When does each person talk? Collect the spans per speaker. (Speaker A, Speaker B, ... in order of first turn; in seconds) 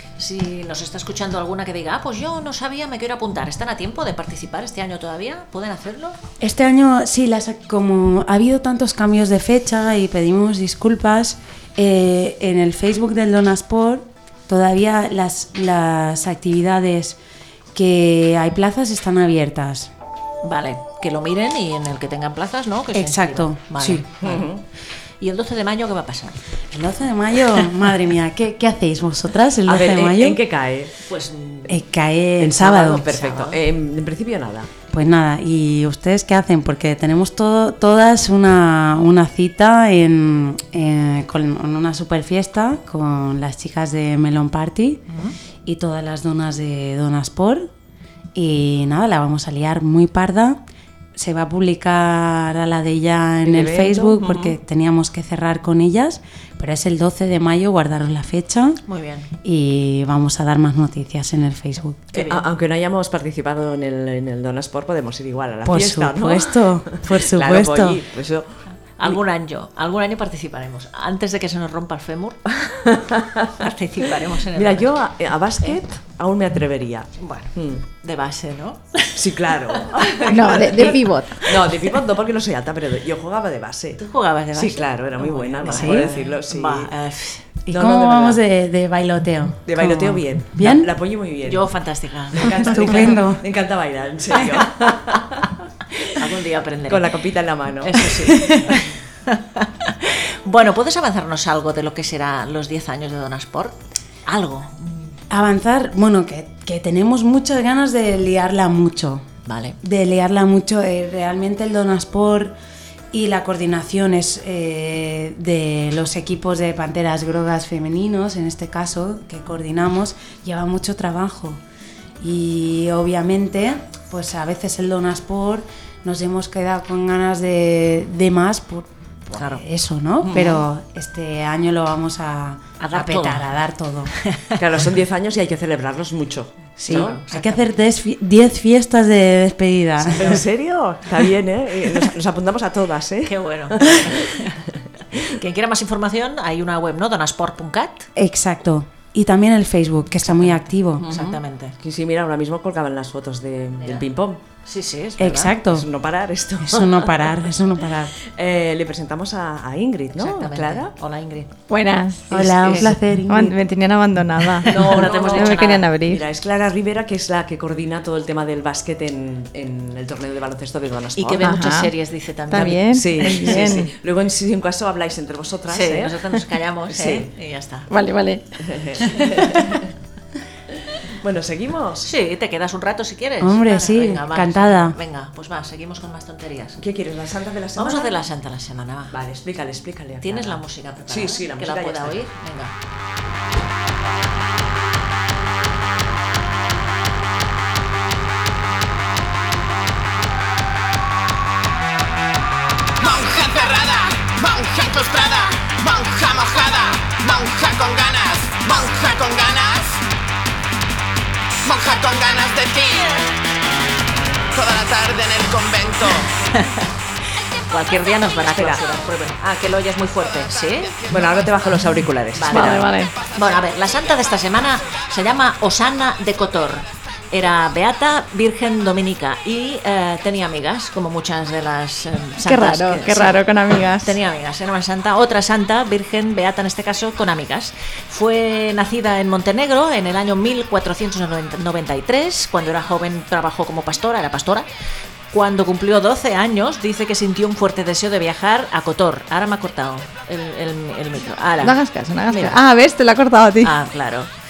Speaker A: 0.2-6.2, 20.4-24.5, 25.2-26.4, 31.1-31.8, 32.9-33.6, 45.1-45.4, 58.9-59.3, 62.1-62.4, 69.0-72.8, 73.6-74.9, 77.2-79.2, 79.9-81.0, 84.0-87.5, 91.5-93.2, 94.8-95.2, 96.2-97.1, 97.8-105.1, 109.5-109.8, 129.3-129.6, 132.8-133.5, 134.2-134.6, 136.9-137.7, 143.2-144.6, 145.3-148.1, 150.3-151.8, 154.6-155.5, 160.1-161.5, 162.6-162.9, 164.6-165.9, 171.2-173.7, 175.7-177.9, 182.0-186.8, 187.8-189.2, 190.2-192.7, 216.6-216.9, 217.7-221.0, 222.3-233.4, 233.9-244.7, 245.3-252.6, 253.6-254.3
Speaker B: 6.4-17.2, 17.7-19.9, 22.9-24.1, 26.7-30.4, 31.7-33.2, 34.9-45.0, 45.6-47.7, 48.4-50.6, 51.1-58.8, 59.4-62.1, 65.7-68.0, 85.7-86.1, 87.7-90.9, 92.4-93.4, 98.3-98.8, 105.3-109.2, 109.8-112.5, 113.1-121.6, 122.2-134.1, 136.8-140.4, 148.2-151.1, 155.2-155.9, 156.6-158.2, 162.3-163.6, 183.4-185.0
Speaker C: 24.2-24.6, 29.7-30.9, 32.4-34.7, 53.4-54.6, 62.1-69.2, 73.0-73.6, 74.5-77.8, 79.2-84.0, 84.5-86.9, 87.7-88.4, 89.7-91.7, 92.3-95.5, 96.9-98.3, 130.2-130.6, 134.6-137.2, 140.2-145.2, 151.0-154.4, 155.7-157.3, 158.3-160.9, 164.7-171.6, 172.6-177.3, 178.6-179.9, 181.1-182.1, 186.8-188.2, 189.1-192.2, 218.5-218.8, 221.1-222.8
Speaker D: 80.3-81.4, 161.7-166.2, 171.4-171.9, 172.5-173.9, 177.9-178.5, 222.5-223.2, 232.4-234.2, 251.6-253.7
Speaker E: 203.0-210.1, 211.7-213.3, 214.5-216.3